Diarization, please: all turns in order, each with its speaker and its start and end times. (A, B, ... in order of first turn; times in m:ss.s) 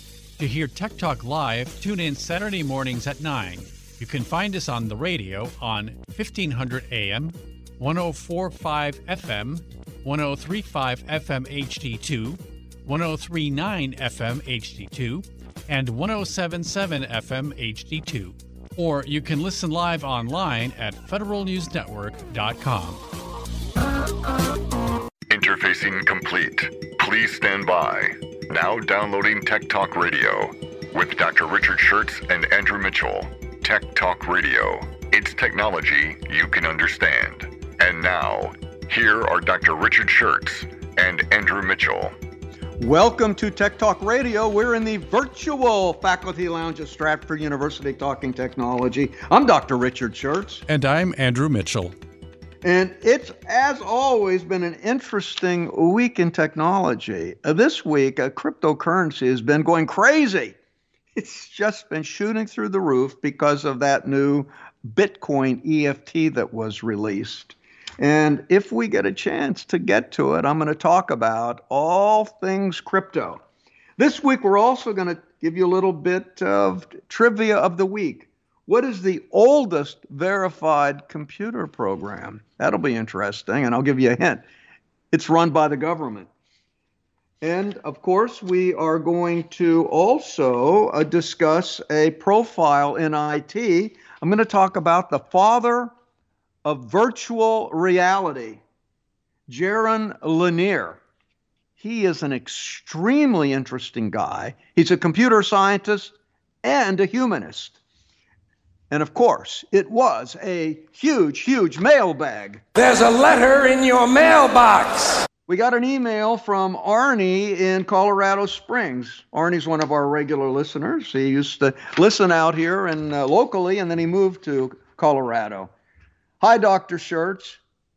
0:00.4-0:23.0 A
0:25.3-0:42.1 B
0:42.8-0:50.6 C
0:50.7-0:52.0 A
0:52.6-1:00.6 C
1:01.2-1:13.4 C
1:14.0-1:24.4 C
1:25.1-1:26.3 C
1:27.4-1:35.9 C
1:36.6-1:38.6 C
1:39.5-1:41.0 C
1:41.8-1:47.8 C
1:48.9-1:52.6 C
1:52.8-1:55.2 D
1:55.5-2:05.7 C
2:06.4-2:07.6 C